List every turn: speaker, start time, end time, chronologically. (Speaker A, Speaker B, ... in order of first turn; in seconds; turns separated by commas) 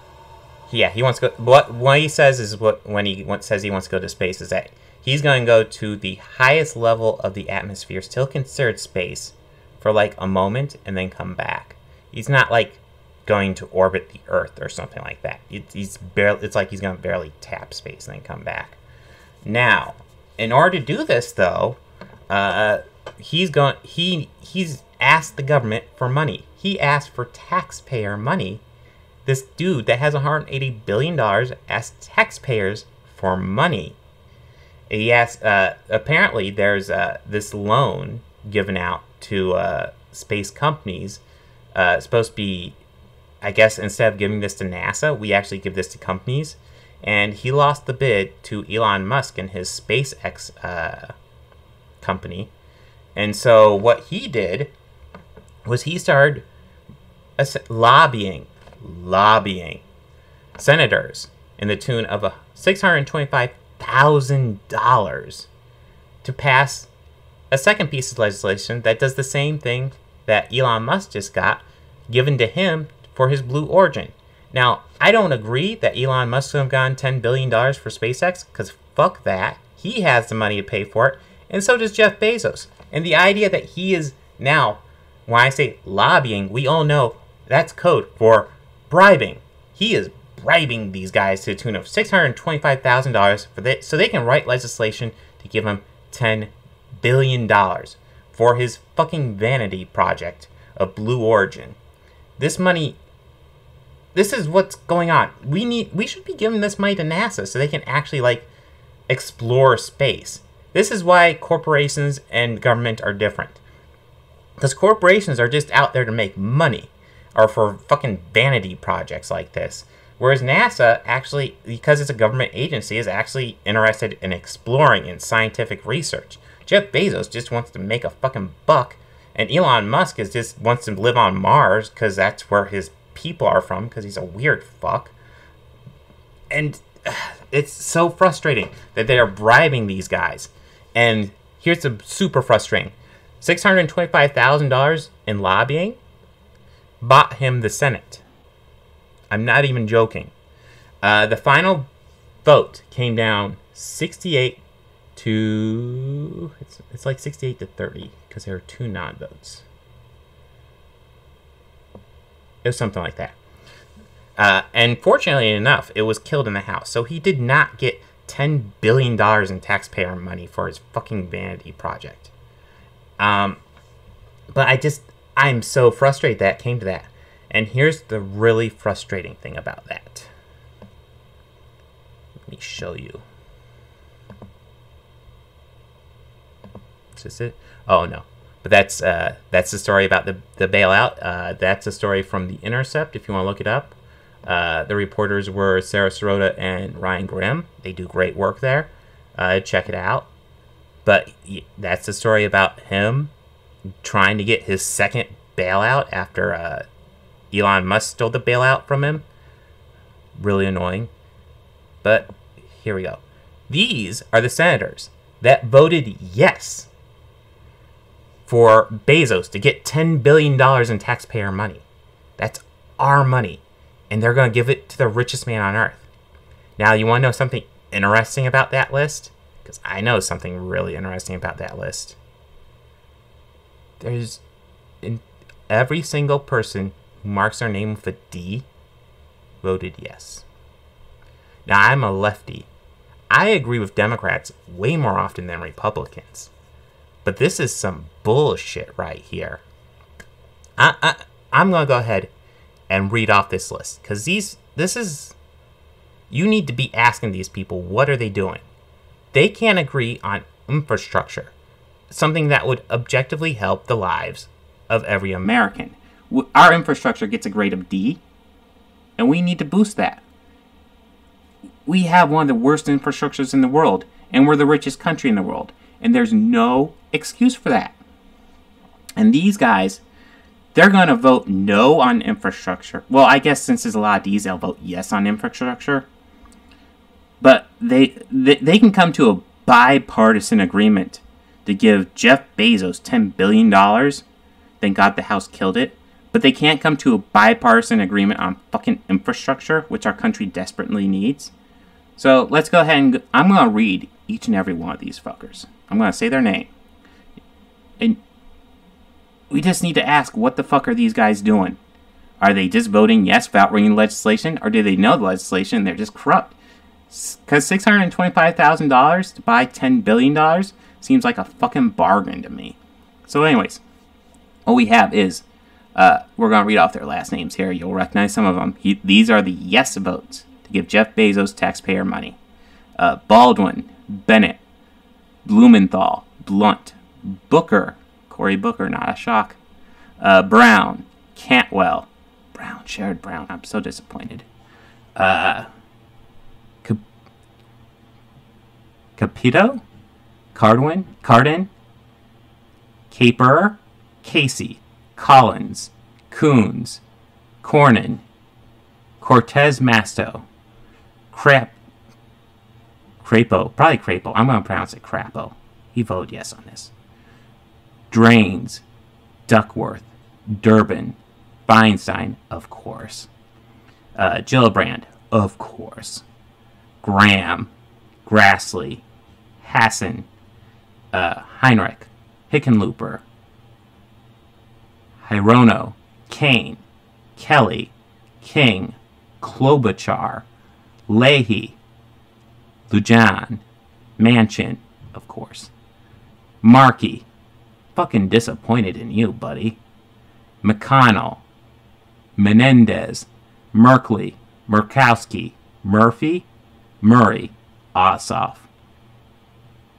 Speaker A: 0.7-18.8, Speaker A: 19.4-28.6, Speaker A: 29.2-34.0, Speaker A: 34.9-41.2, Speaker A: 41.7-42.8, Speaker A: 43.4-51.1, Speaker A: 52.0-52.5, Speaker A: 53.1-54.7, Speaker A: 55.6-56.5, Speaker A: 57.4-59.8, Speaker A: 60.5-65.5, Speaker A: 66.2-66.9, Speaker A: 67.5-101.8, Speaker A: 102.4-103.0, Speaker A: 104.1-108.5, Speaker A: 109.1-113.6, Speaker A: 114.6-135.1, Speaker A: 136.5-146.0, Speaker A: 147.0-148.2, Speaker A: 149.3-150.3, Speaker A: 151.0-151.9, Speaker A: 152.4-154.6, Speaker A: 155.2-159.6, Speaker A: 162.6-163.4, Speaker A: 164.4-172.3, Speaker A: 173.2-173.6, Speaker A: 174.5-180.3, Speaker A: 182.5-183.2, Speaker A: 187.1-200.3, Speaker A: 201.0-203.3, Speaker A: 204.0-206.8, Speaker A: 207.5-209.2, Speaker A: 210.3-211.1, Speaker A: 212.0-216.9, Speaker A: 218.4-221.8, Speaker A: 222.4-226.1, Speaker A: 226.8-232.2, Speaker A: 234.0-234.4, Speaker A: 235.0-238.7, Speaker A: 239.6-240.4, Speaker A: 241.7-242.7, Speaker A: 243.3-246.5, Speaker A: 247.2-249.6, Speaker A: 250.8-252.3, Speaker A: 252.9-255.3, Speaker A: 256.3-258.6, Speaker A: 259.3-261.5, Speaker A: 262.1-268.2, Speaker A: 269.2-270.2, Speaker A: 271.9-278.0, Speaker A: 279.2-280.0, Speaker A: 280.7-286.1, Speaker A: 287.4-294.2, Speaker A: 294.8-301.5, Speaker A: 302.2-306.7, Speaker A: 309.5-311.8, Speaker A: 312.4-316.5, Speaker A: 317.1-323.8, Speaker A: 324.6-332.4, Speaker A: 333.0-334.6, Speaker A: 335.4-339.6, Speaker A: 340.2-344.5, Speaker A: 345.1-345.7, Speaker A: 349.2-349.8, Speaker A: 350.5-351.7, Speaker A: 353.1-357.0, Speaker A: 357.6-358.2, Speaker A: 359.2-360.4, Speaker A: 361.3-361.8, Speaker A: 363.2-366.9, Speaker A: 368.1-368.8, Speaker A: 369.5-373.3, Speaker A: 374.1-376.2, Speaker A: 377.0-377.7, Speaker A: 378.2-379.0, Speaker A: 379.6-380.3, Speaker A: 381.1-383.2, Speaker A: 385.2-386.8, Speaker A: 387.4-390.4, Speaker A: 391.1-391.8, Speaker A: 392.9-393.6, Speaker A: 394.2-395.7, Speaker A: 396.6-397.2, Speaker A: 397.9-399.8, Speaker A: 400.6-401.4, Speaker A: 402.4-406.5, Speaker A: 407.0-408.7